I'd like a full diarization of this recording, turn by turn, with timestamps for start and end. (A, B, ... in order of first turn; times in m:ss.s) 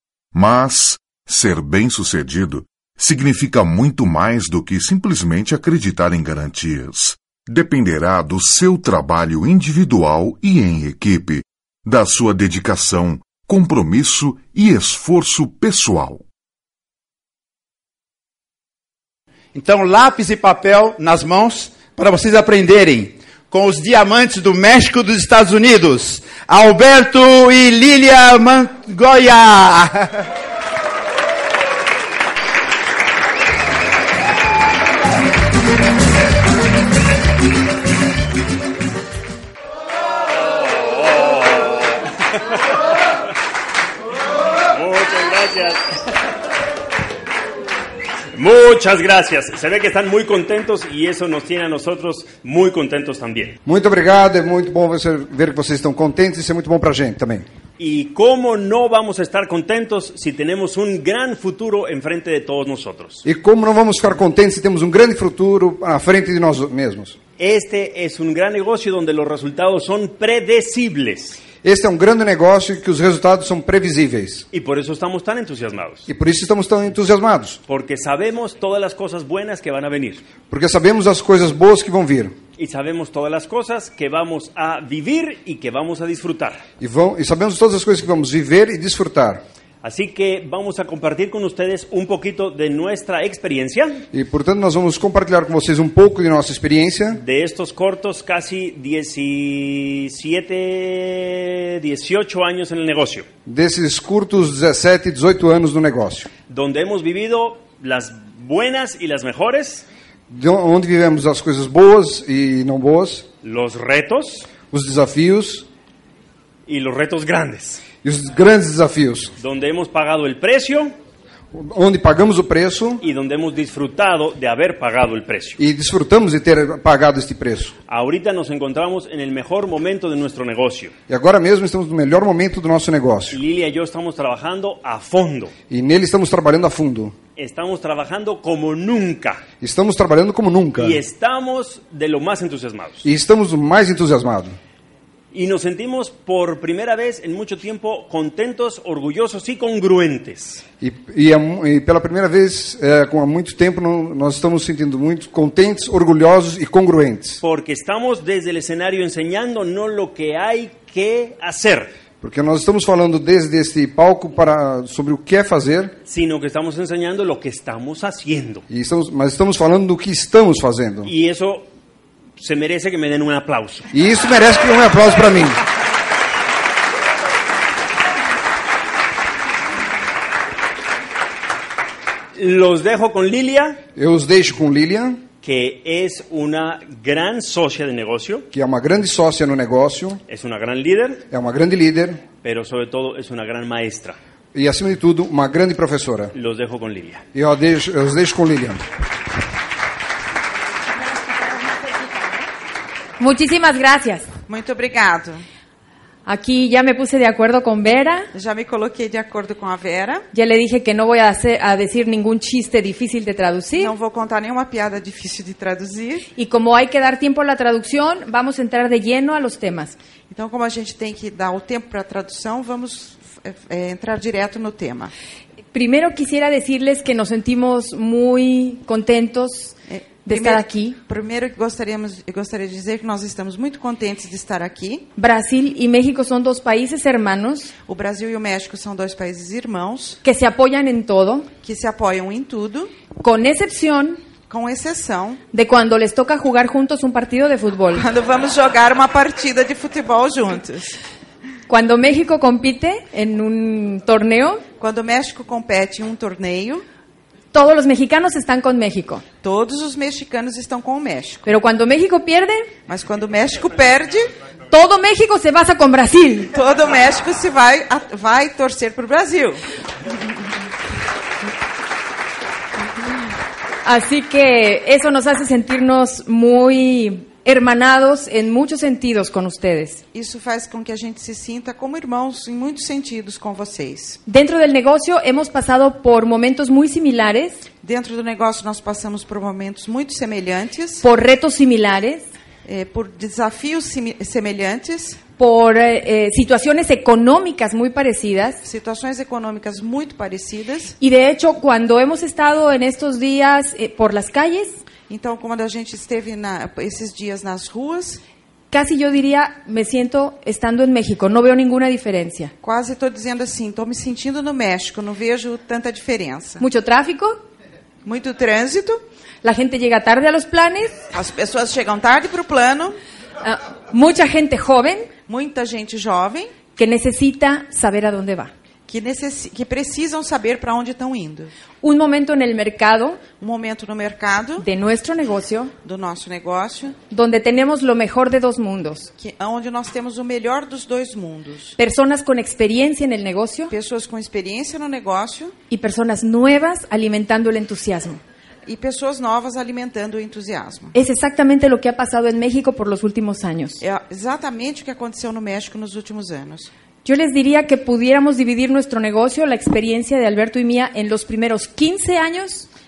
0:00.3-0:16.2 A
0:19.5-0:30.3 B
0:40.5-0:41.9 C
0:44.7-0:45.8 C
0:48.3-0:53.6 C
0:53.6-0:57.4 D
0:57.8-1:03.2 C
1:03.2-1:07.2 D
1:07.4-1:11.4 C
1:11.6-1:14.4 D
1:14.5-1:16.1 C
1:16.1-1:17.6 D
1:17.7-1:20.2 C
1:20.5-1:22.4 D
1:22.6-1:26.6 C
1:26.8-1:29.4 D
1:29.8-1:34.0 C
1:34.1-1:37.2 D
1:37.2-1:43.2 C
1:43.4-1:46.3 D
1:46.5-1:49.8 C
1:50.3-1:53.2 D
1:53.4-1:54.5 C
1:54.7-1:55.6 D
1:56.7-1:57.8 C
1:58.0-1:59.3 D
1:59.4-2:00.9 C
2:01.5-2:03.0 D
2:03.0-2:05.6 C
2:05.6-2:07.7 D
2:07.9-2:10.9 C
2:11.1-2:13.4 D
2:13.3-2:15.5 C
2:15.7-2:17.1 D
2:17.4-2:19.4 C
2:19.6-2:21.0 D
2:20.8-2:23.0 C
2:23.0-2:24.6 D
2:25.3-2:30.6 C
2:30.8-2:37.4 D
2:37.4-2:41.9 C
2:42.2-2:46.0 D
2:46.0-2:48.6 C
2:48.7-2:51.1 D
2:51.0-2:51.7 C
2:52.4-2:53.9 C
2:53.9-2:55.6 D
3:02.4-3:03.8 C
3:04.0-3:05.2 D
3:05.4-3:08.4 C
3:08.5-3:10.2 D
3:10.3-3:11.2 C
3:11.3-3:12.2 D
3:12.4-3:14.2 C
3:14.5-3:16.3 D
3:16.3-3:17.2 C
3:17.3-3:18.8 D
3:23.2-3:24.2 E
3:24.5-3:25.4 F
3:26.2-3:28.3 E
3:28.3-3:30.2 F
3:30.3-3:33.9 E
3:33.8-3:36.2 F
3:36.4-3:40.0 E
3:40.3-3:45.1 F
3:45.7-3:49.7 E
3:49.9-3:55.1 F
3:50.2-3:51.0 E
3:55.2-3:57.7 E
3:57.8-4:00.2 F
4:00.2-4:01.5 E
4:01.6-4:02.9 F
4:03.2-4:04.2 E
4:04.5-4:05.4 F
4:05.5-4:08.0 E
4:07.9-4:11.0 F
4:11.7-4:14.6 E
4:14.8-4:16.8 F
4:17.5-4:19.2 E
4:19.4-4:21.5 F
4:21.4-4:22.7 E
4:22.9-4:24.3 F
4:24.7-4:26.5 E
4:26.5-4:29.6 F
4:33.8-4:40.0 E
4:40.1-4:44.2 F
4:44.3-4:47.6 E
4:47.8-4:51.0 F
4:51.0-4:52.3 E
4:52.6-4:55.2 F
4:55.4-4:58.6 E
4:58.6-5:01.0 F
5:01.0-5:04.8 E
5:05.1-5:08.2 F
5:08.7-5:12.5 E
5:12.6-5:16.6 F
5:16.6-5:17.4 E
5:18.0-5:19.0 F
5:19.4-5:21.0 E
5:21.1-5:23.0 F
5:23.4-5:25.1 E
5:25.3-5:26.5 F
5:26.8-5:28.5 E
5:28.9-5:31.5 F
5:31.8-5:33.2 E
5:33.4-5:34.6 F
5:34.6-5:35.7 E
5:35.8-5:37.0 F
5:37.1-5:39.1 E
5:39.2-5:41.8 F
5:41.8-5:43.7 E
5:43.7-5:45.5 F
5:45.7-5:48.2 E
5:48.6-5:50.9 F
5:50.9-5:53.8 E
5:53.8-5:56.7 F
5:57.0-6:02.6 E